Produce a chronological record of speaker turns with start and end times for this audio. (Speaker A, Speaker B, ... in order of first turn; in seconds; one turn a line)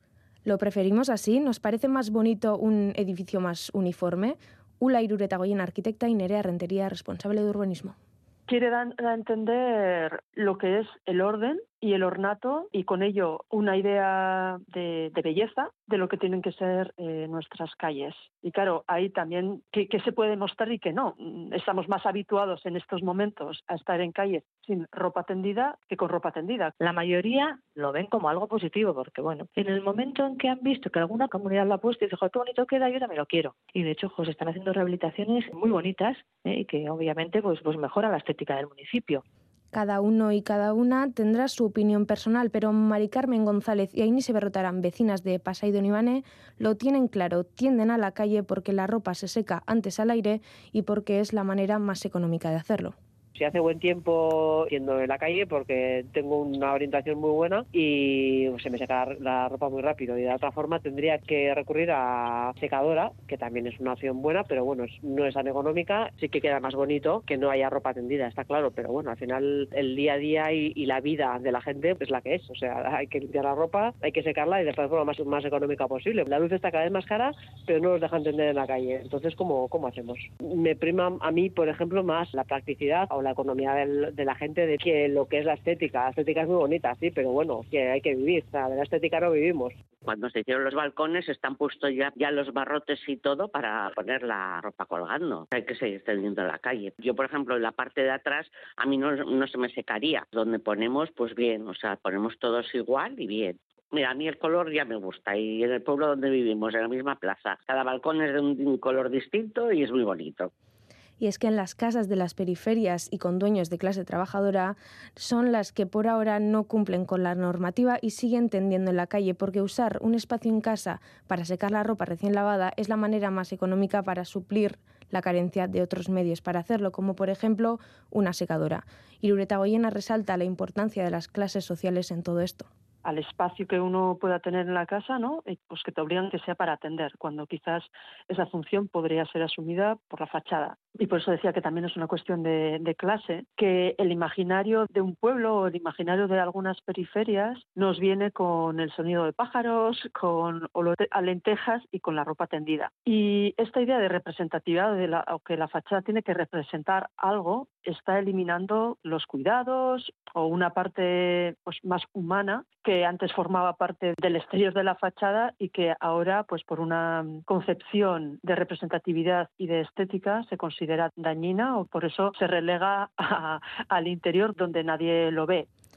Speaker A: 0.5-8.0
Speaker B: 8.5-26.7
Speaker C: 26.8-39.2
Speaker A: 39.7-52.9
Speaker D: 53.3-89.7
Speaker E: 90.0-110.5
Speaker A: 111.2-132.7
Speaker B: 133.0-175.7